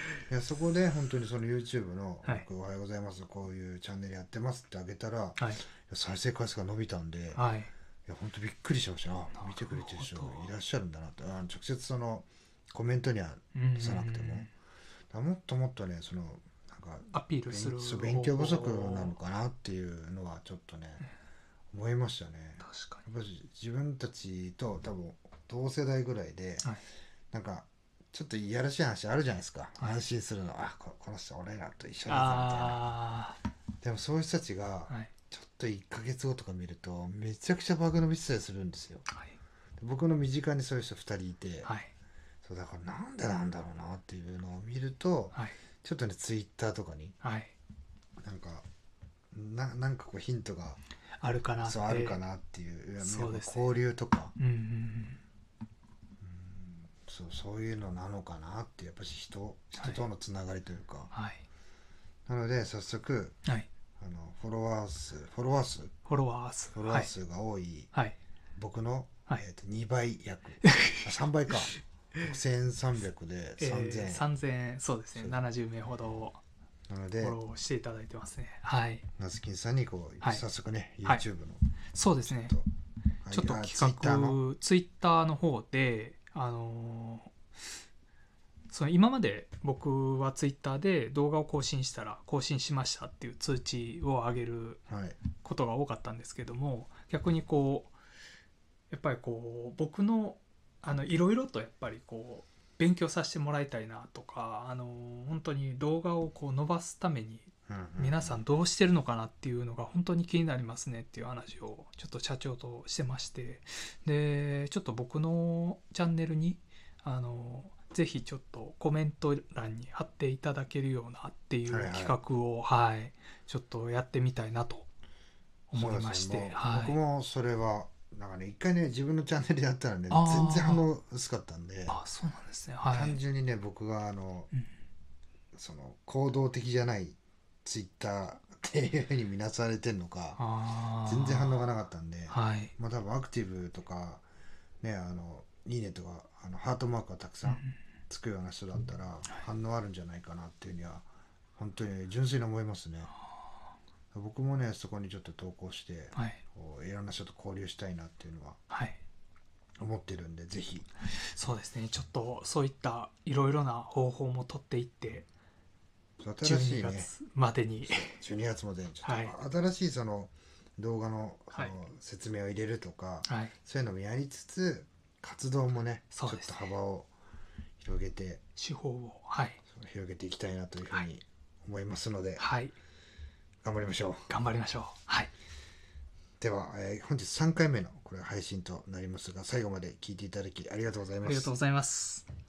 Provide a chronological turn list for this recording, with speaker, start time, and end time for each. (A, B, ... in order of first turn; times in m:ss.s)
0:00.3-0:07.4 A
0:05.4-0:05.6 B
0:07.3-0:07.7 B
0:08.0-0:14.5 A
0:09.3-0:10.5 B
0:13.5-0:14.5 B
0:15.1-0:21.0 A
0:17.1-0:19.2 B
0:21.7-0:26.6 A
0:22.6-0:23.0 B
0:27.3-0:32.9 A
0:32.1-0:33.4 B
0:33.8-0:39.0 A
0:39.1-0:39.4 B
0:39.8-0:41.7 A
0:41.6-0:41.9 B
0:42.4-0:47.2 A
0:47.2-0:47.5 B
0:48.2-0:48.6 A
0:49.3-0:50.8 A
0:51.2-0:52.2 B
0:51.6-0:54.3 A
0:53.0-0:53.7 B
0:54.4-0:55.2 B
0:56.2-1:01.1 A
1:01.1-1:01.4 B
1:02.3-1:03.4 A
1:04.0-1:05.9 A
1:06.0-1:07.1 B
1:06.7-1:07.9 A
1:08.6-1:14.3 A
1:10.6-1:11.0 B
1:13.6-1:16.4 B
1:16.9-1:17.4 A
1:17.2-1:19.0 B
1:19.2-1:21.6 A
1:21.9-1:22.5 B
1:22.2-1:22.7 A
1:23.2-1:24.4 A
1:23.3-1:27.3 B
1:28.7-1:34.8 B
1:34.9-1:35.2 A
1:35.4-1:37.9 B
1:38.9-2:04.8 B
1:47.7-1:48.4 A
2:01.7-2:02.2 A
2:05.7-2:07.0 B
2:05.7-2:12.0 A
2:10.1-2:10.8 B
2:11.9-2:13.2 B
2:12.9-2:14.5 A
2:15.5-2:20.4 A
2:20.4-2:21.6 B
2:21.0-2:24.2 A
2:22.3-2:22.7 B
2:24.8-2:31.0 A
2:27.4-2:27.7 B
2:31.6-2:33.1 A
2:34.1-2:38.6 A
2:36.1-2:36.4 B
2:38.7-2:39.0 B
2:39.8-2:40.9 A
2:41.1-2:45.3 B
2:46.2-2:47.1 A
2:46.4-2:48.2 B
2:48.0-2:57.1 A
2:49.0-2:49.3 B
2:53.2-2:53.5 B
2:56.1-2:56.6 B
2:57.8-2:58.4 A
2:58.6-2:59.6 B
2:59.6-3:02.4 A
3:02.4-3:02.7 B
3:03.6-3:04.3 A
3:04.3-3:05.3 B
3:06.4-3:11.5 A
3:11.2-3:12.2 B